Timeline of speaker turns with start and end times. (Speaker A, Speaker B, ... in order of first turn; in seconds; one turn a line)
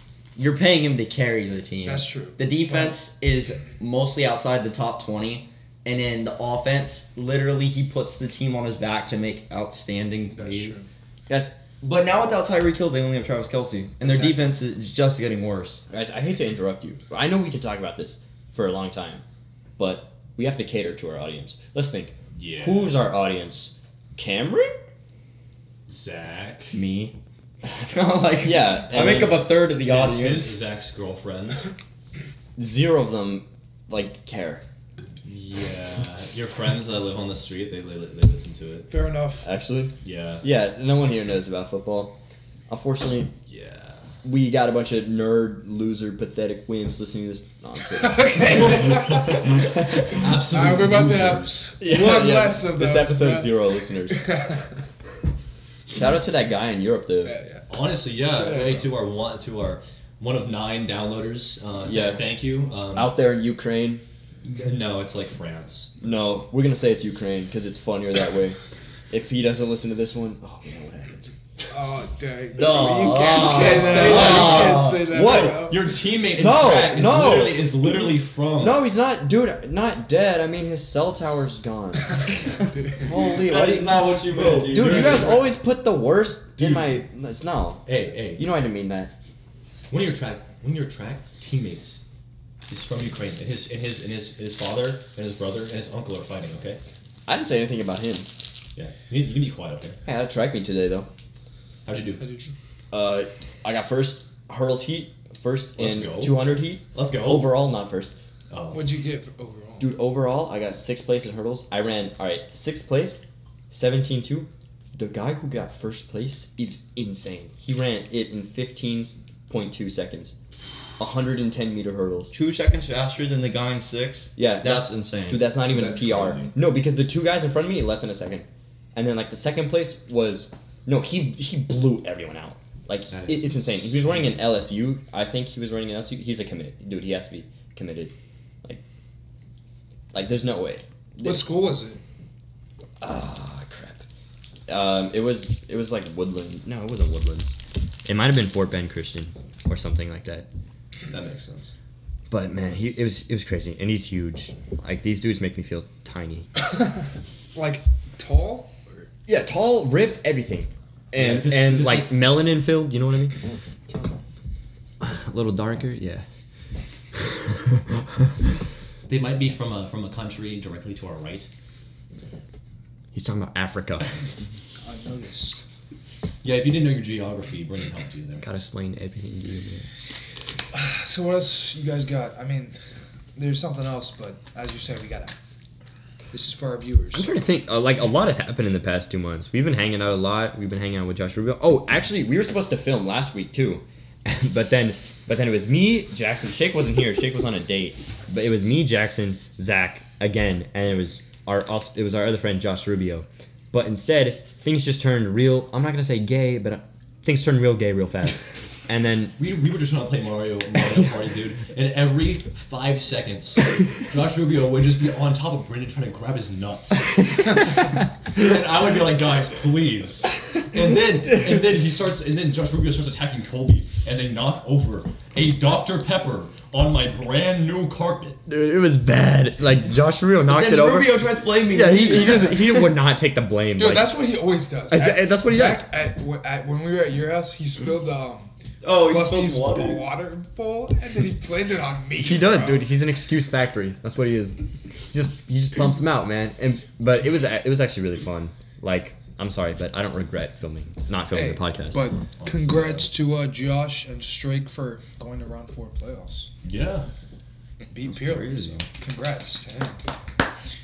Speaker A: 0.3-10.8
Speaker B: 1.8-3.0
Speaker B: 10.3-10.9
Speaker A: 11.3-15.8
Speaker B: 14.0-14.4
Speaker C: 15.9-19.2
Speaker C: 19.8-24.8
Speaker D: 22.3-23.0
Speaker D: 25.9-26.8
Speaker A: 26.7-30.6
Speaker C: 28.4-29.5
Speaker D: 29.8-31.7
Speaker C: 32.6-34.6
Speaker D: 35.2-38.9
Speaker B: 38.9-39.5
Speaker C: 39.4-42.2
Speaker D: 40.0-40.5
Speaker C: 42.7-43.3
Speaker D: 43.5-44.1
Speaker C: 44.2-49.1
Speaker B: 47.9-54.7
Speaker D: 49.9-51.7
Speaker C: 51.8-54.3
Speaker C: 55.9-57.3
Speaker B: 57.2-57.6
Speaker D: 57.7-63.1
Speaker B: 58.2-58.9
Speaker C: 61.9-62.3
Speaker C: 62.9-64.0
Speaker D: 64.4-65.9
Speaker C: 66.0-68.6
Speaker C: 69.1-71.3
Speaker B: 71.7-75.8
Speaker A: 72.5-74.8
Speaker C: 72.7-75.7
Speaker D: 73.5-78.8
Speaker C: 76.3-84.0
Speaker A: 83.1-85.4
Speaker D: 83.5-85.5
Speaker C: 84.7-89.1
Speaker D: 86.6-87.0
Speaker D: 87.8-88.4
Speaker D: 89.9-92.0
Speaker D: 92.7-96.8
Speaker C: 97.3-98.3
Speaker D: 98.8-100.0
Speaker C: 100.0-101.1
Speaker D: 101.8-102.2
Speaker B: 102.2-102.5
Speaker C: 102.9-108.2
Speaker D: 105.8-107.6
Speaker D: 108.5-108.9
Speaker B: 108.7-109.9
Speaker C: 109.8-120.4
Speaker C: 121.0-122.3
Speaker A: 122.3-125.5
Speaker C: 124.3-138.1
Speaker D: 125.7-126.5
Speaker B: 125.8-126.5
Speaker D: 133.1-134.2
Speaker C: 140.1-141.5
Speaker B: 141.2-142.0
Speaker C: 143.0-144.0
Speaker C: 144.7-150.5
Speaker D: 151.1-151.7
Speaker C: 152.3-156.5
Speaker B: 157.5-159.1
Speaker C: 159.3-163.4
Speaker D: 161.1-162.5
Speaker C: 165.0-166.2
Speaker D: 169.1-171.5
Speaker C: 173.1-174.1
Speaker B: 174.8-175.6
Speaker D: 176.4-178.4
Speaker C: 178.4-179.8
Speaker B: 180.7-182.8
Speaker B: 183.3-185.3
Speaker B: 186.3-187.3
Speaker C: 187.1-209.3
Speaker D: 209.4-228.4
Speaker C: 228.5-234.1
Speaker A: 230.5-232.6
Speaker B: 233.8-242.8
Speaker C: 234.9-235.9
Speaker A: 238.8-240.1
Speaker C: 242.2-244.6
Speaker C: 245.1-252.0
Speaker B: 251.3-256.5
Speaker D: 252.3-253.1
Speaker D: 256.6-257.1
Speaker B: 257.9-260.0
Speaker A: 258.0-258.9